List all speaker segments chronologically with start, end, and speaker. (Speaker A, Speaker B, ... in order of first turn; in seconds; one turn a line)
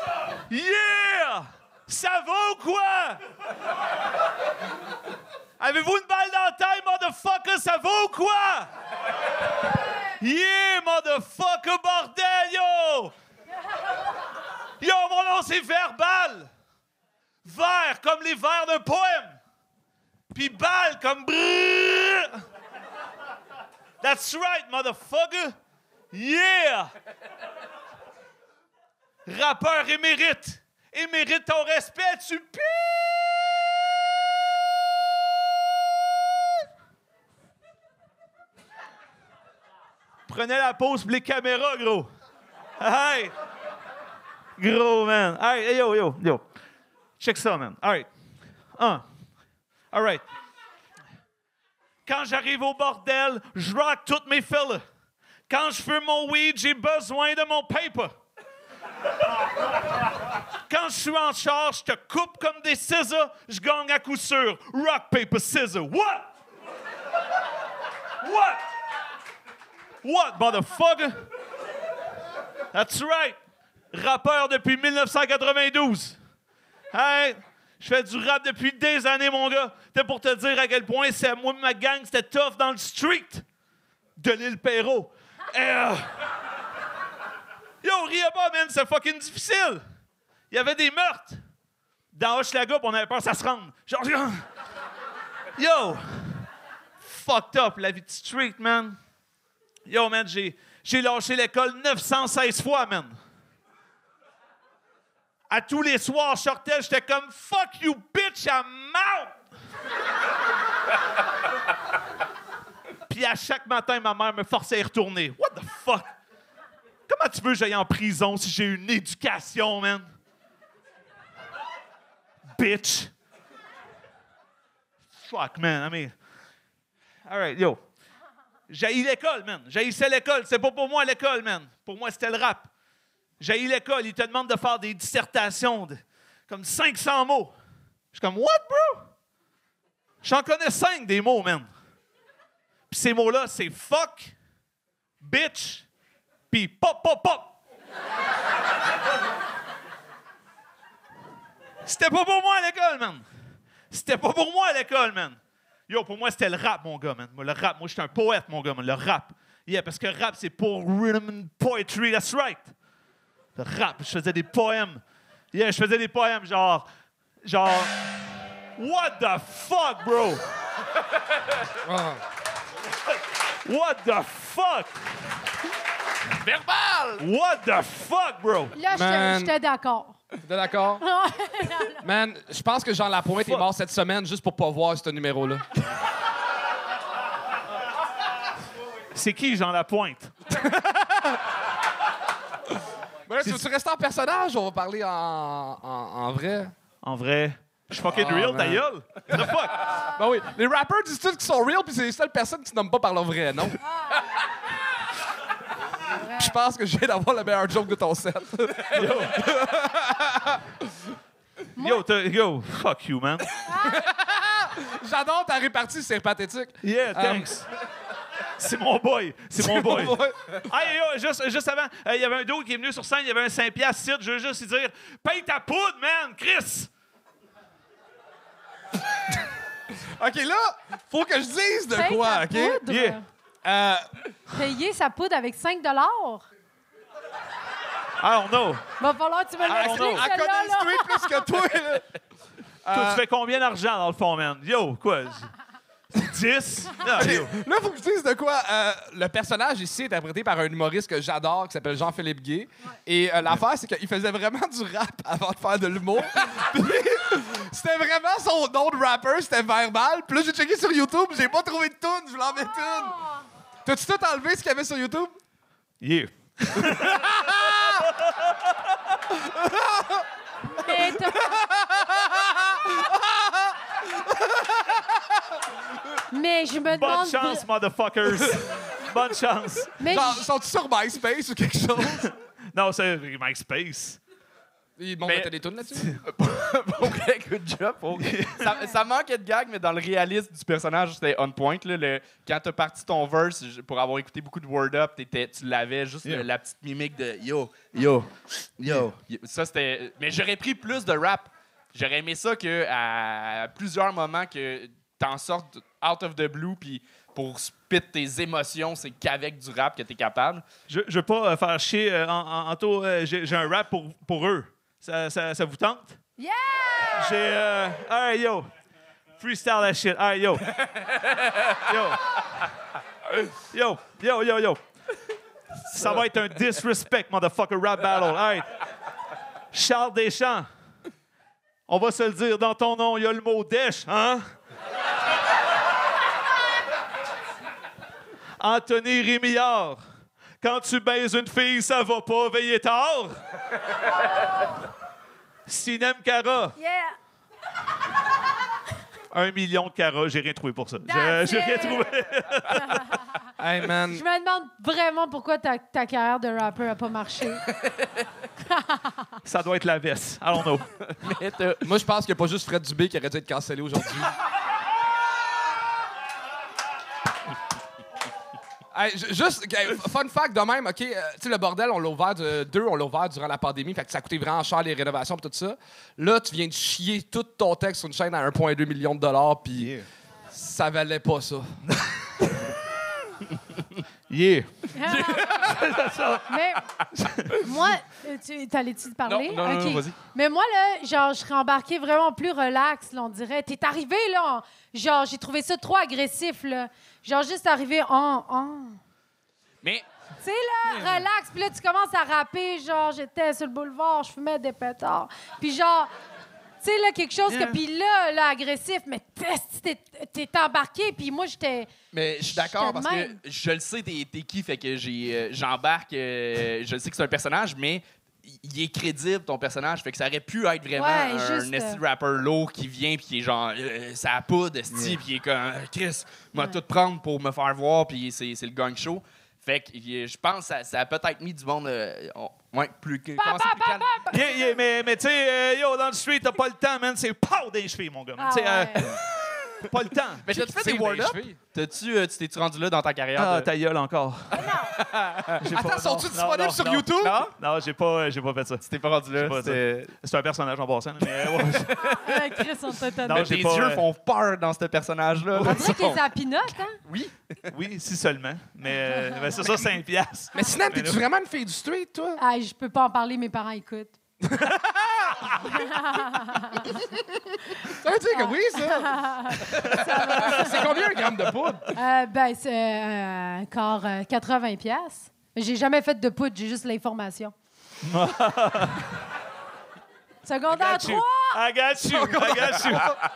Speaker A: 0.5-3.2
Speaker A: 5.6-8.7
Speaker A: 10.2-13.1
Speaker A: 14.8-16.5
Speaker A: 17.4-19.3
Speaker A: 20.3-22.4
Speaker A: 24.0-25.6
Speaker A: 26.1-26.9
Speaker A: 29.3-33.5
Speaker A: 40.3-42.1
Speaker A: 42.8-43.3
Speaker A: 44.6-46.5
Speaker A: 47.2-48.1
Speaker A: 48.7-49.0
Speaker A: 49.9-50.2
Speaker A: 52.1-54.8
Speaker A: 55.5-58.1
Speaker A: 60.7-66.3
Speaker A: 68.2-68.6
Speaker A: 70.0-71.2
Speaker A: 72.7-73.4
Speaker A: 73.9-76.2
Speaker A: 76.9-83.4
Speaker A: 84.2-86.2
Speaker A: 87.8-89.8
Speaker A: 90.5-91.4
Speaker A: 92.1-94.5
Speaker A: 95.6-96.5
Speaker A: 97.0-99.0
Speaker A: 99.9-103.1
Speaker A: 105.5-109.3
Speaker A: 113.1-116.1
Speaker A: 117.1-120.0
Speaker A: 122.6-123.1
Speaker A: 125.2-126.2
Speaker A: 127.3-127.8
Speaker A: 128.7-132.7
Speaker A: 133.4-137.5
Speaker A: 138.1-139.1
Speaker A: 140.2-141.7
Speaker A: 142.9-144.3
Speaker A: 145.2-145.9
Speaker A: 146.5-147.5
Speaker A: 151.8-153.2
Speaker A: 153.9-162.7
Speaker A: 163.6-165.0
Speaker A: 165.5-166.9
Speaker A: 167.4-168.0
Speaker A: 168.8-170.4
Speaker B: 171.8-172.2
Speaker A: 173.7-174.9
Speaker C: 176.4-177.2
Speaker A: 177.2-178.7
Speaker D: 178.8-180.2
Speaker B: 178.9-179.6
Speaker B: 180.4-181.0
Speaker D: 181.0-182.1
Speaker B: 182.0-185.7
Speaker A: 189.1-190.3
Speaker B: 190.5-191.4
Speaker B: 193.3-196.7
Speaker A: 193.4-193.7
Speaker A: 197.0-199.9
Speaker B: 198.0-203.8
Speaker B: 206.3-210.6
Speaker A: 209.0-209.3
Speaker D: 211.8-212.1
Speaker A: 211.8-213.5
Speaker D: 213.7-214.0
Speaker B: 213.8-217.6
Speaker A: 216.8-217.7
Speaker A: 218.6-226.9
Speaker B: 219.6-220.6
Speaker B: 230.2-232.8
Speaker D: 231.9-233.2
Speaker A: 232.8-233.2
Speaker B: 233.6-234.1
Speaker D: 234.5-236.5
Speaker A: 238.2-238.8
Speaker D: 239.0-241.4
Speaker B: 239.7-242.1
Speaker A: 239.7-240.3
Speaker B: 242.9-243.2
Speaker A: 242.9-245.5
Speaker A: 246.2-247.5
Speaker B: 247.1-263.2
Speaker D: 262.7-263.4
Speaker B: 263.9-265.4
Speaker A: 266.0-267.3
Speaker B: 267.1-268.1
Speaker B: 269.3-270.2
Speaker D: 270.8-271.6
Speaker B: 270.9-275.2
Speaker D: 276.3-277.7
Speaker A: 276.9-280.0
Speaker D: 280.0-280.4
Speaker B: 280.1-282.3
Speaker A: 282.2-284.2
Speaker B: 285.0-286.2
Speaker C: 285.3-285.6
Speaker C: 286.2-310.7
Speaker A: 288.4-288.7
Speaker A: 310.9-316.2
Speaker D: 316.4-317.4
Speaker A: 317.2-318.7
Speaker A: 319.4-320.7
Speaker A: 321.9-322.2
Speaker A: 323.7-324.8
Speaker A: 325.9-328.8
Speaker C: 325.9-326.2
Speaker A: 329.7-330.7
Speaker A: 331.9-334.4
Speaker A: 338.6-340.0
Speaker A: 340.6-343.4
Speaker A: 345.7-346.8
Speaker D: 346.8-347.1
Speaker A: 349.3-353.2
Speaker D: 351.0-352.1
Speaker D: 352.7-353.1
Speaker B: 353.6-354.2
Speaker D: 354.1-357.6
Speaker D: 358.7-359.1
Speaker A: 359.4-360.9
Speaker C: 361.1-361.8
Speaker B: 361.9-364.3
Speaker B: 368.9-380.0
Speaker B: 380.5-381.8
Speaker A: 384.3-386.4
Speaker D: 384.9-385.8
Speaker D: 386.5-386.8
Speaker D: 387.6-399.0
Speaker C: 389.3-390.1
Speaker B: 389.5-390.1
Speaker D: 400.4-406.1
Speaker C: 400.9-401.3
Speaker D: 406.8-411.9
Speaker C: 407.5-407.8
Speaker C: 412.1-434.2
Speaker D: 412.6-413.4
Speaker D: 420.9-422.0
Speaker D: 433.4-434.8
Speaker A: 434.3-439.2
Speaker D: 438.4-439.1
Speaker A: 439.9-440.5
Speaker C: 440.4-443.7
Speaker B: 440.5-441.6
Speaker A: 443.4-444.7
Speaker D: 444.6-444.9
Speaker C: 445.0-445.6
Speaker A: 445.6-451.9
Speaker B: 445.7-447.4
Speaker C: 447.2-447.6
Speaker C: 448.8-450.2
Speaker C: 451.3-452.4
Speaker D: 452.0-453.5
Speaker A: 453.2-454.0
Speaker C: 453.3-457.6
Speaker D: 455.6-457.0
Speaker A: 457.7-461.2
Speaker D: 459.1-459.5
Speaker B: 460.5-462.4
Speaker D: 462.4-464.1
Speaker B: 464.5-465.3
Speaker D: 465.8-467.0
Speaker D: 467.8-470.9
Speaker B: 468.0-471.9
Speaker D: 472.0-477.5
Speaker A: 478.0-479.0
Speaker D: 480.4-481.6
Speaker A: 480.7-483.2
Speaker B: 482.1-483.1